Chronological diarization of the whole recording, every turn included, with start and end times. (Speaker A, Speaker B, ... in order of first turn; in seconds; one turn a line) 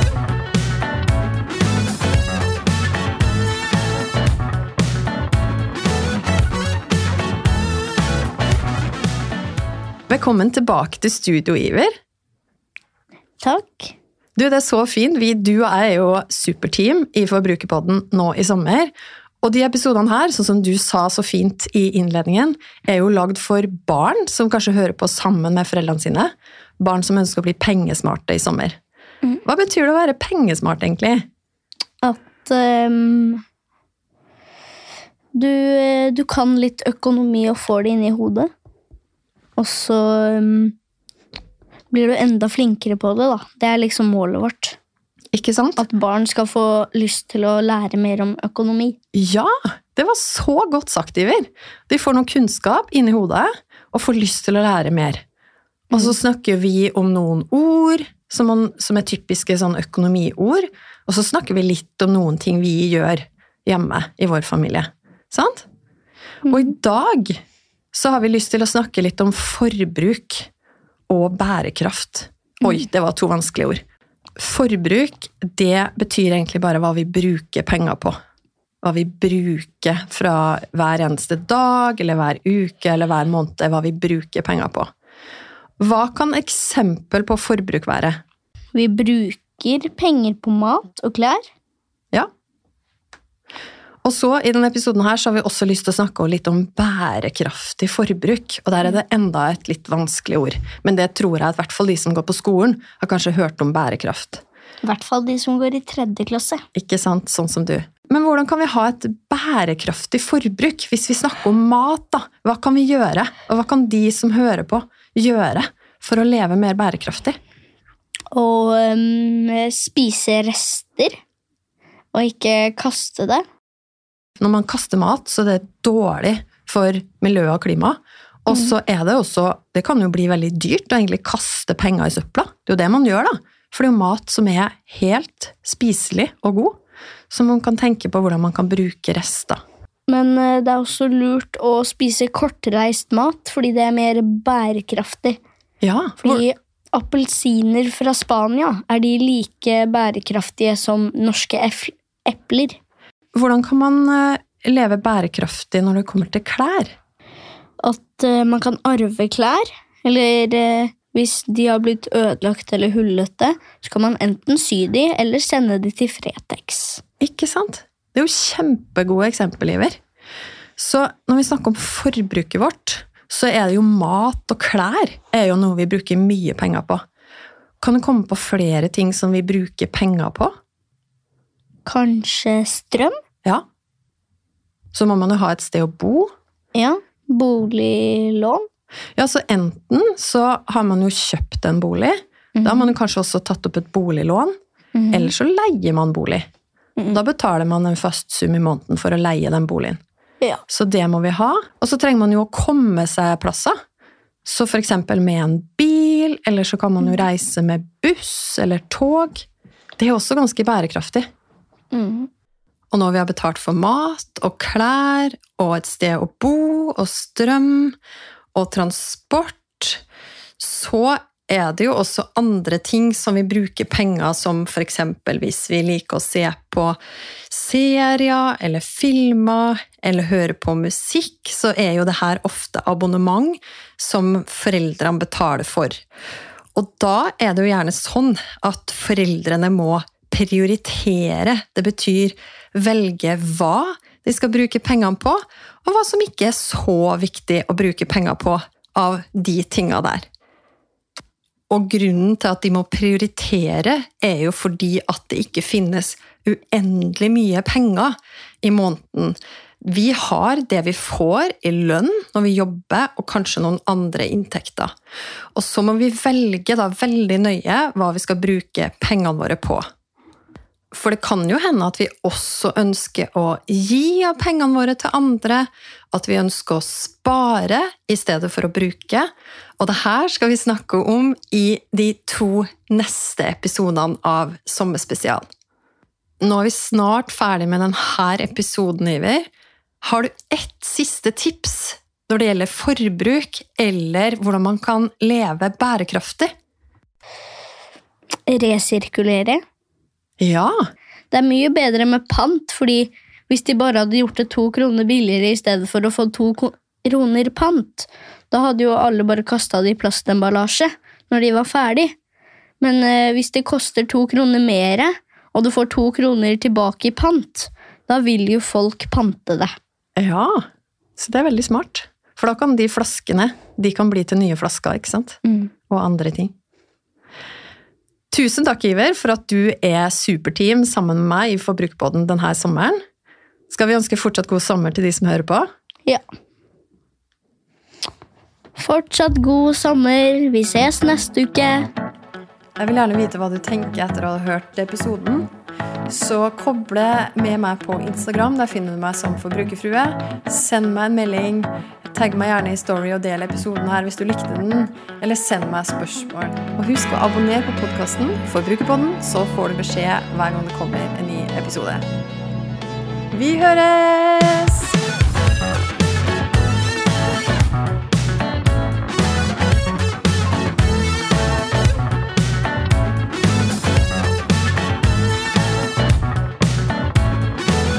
Speaker A: 10.1-11.9
Speaker B: 13.4-13.9
Speaker A: 14.4-28.8
Speaker A: 29.4-31.2
Speaker B: 32.0-33.4
Speaker B: 35.4-38.5
Speaker B: 39.6-40.8
Speaker B: 41.9-44.8
Speaker A: 45.3-45.8
Speaker B: 45.8-49.0
Speaker A: 49.1-55.2
Speaker A: 55.9-65.7
Speaker B: 66.5-66.7
Speaker A: 66.5-67.4
Speaker A: 67.9-70.5
Speaker A: 71.1-73.8
Speaker A: 74.4-78.2
Speaker A: 78.8-84.9
Speaker A: 85.8-88.2
Speaker B: 88.7-91.4
Speaker A: 94.0-104.4
Speaker B: 104.8-106.6
Speaker A: 106.8-117.4
Speaker B: 118.3-121.2
Speaker B: 122.1-123.4
Speaker A: 124.4-136.8
Speaker A: 137.3-139.6
Speaker B: 140.1-145.4
Speaker A: 145.8-146.4
Speaker B: 146.2-152.8
Speaker A: 153.3-156.9
Speaker B: 157.8-167.0
Speaker A: 167.2-170.0
Speaker A: 170.8-177.0
Speaker A: 177.8-180.5
Speaker B: 181.9-183.2
Speaker A: 184.9-186.3
Speaker B: 186.8-188.7
Speaker A: 189.2-194.5
Speaker B: 192.6-192.9
Speaker B: 194.9-195.3
Speaker A: 195.1-196.4
Speaker A: 197.1-200.0
Speaker A: 200.7-203.8
Speaker A: 204.4-209.5
Speaker A: 210.0-211.2
Speaker B: 211.9-212.3
Speaker A: 212.9-218.0
Speaker A: 218.6-220.0
Speaker A: 220.6-227.0
Speaker A: 227.5-236.0
Speaker A: 236.8-250.3
Speaker A: 251.7-264.9
Speaker A: 265.6-269.9
Speaker A: 270.9-285.4
Speaker A: 286.4-289.4
Speaker A: 290.0-296.5
Speaker B: 298.5-299.6
Speaker A: 300.4-300.7
Speaker B: 301.3-312.1
Speaker B: 312.8-319.7
Speaker A: 320.2-320.6
Speaker A: 321.2-326.5
Speaker A: 328.3-333.0
Speaker A: 333.7-335.7
Speaker B: 338.8-341.9
Speaker A: 342.8-345.5
Speaker A: 346.1-362.1
Speaker A: 363.3-365.0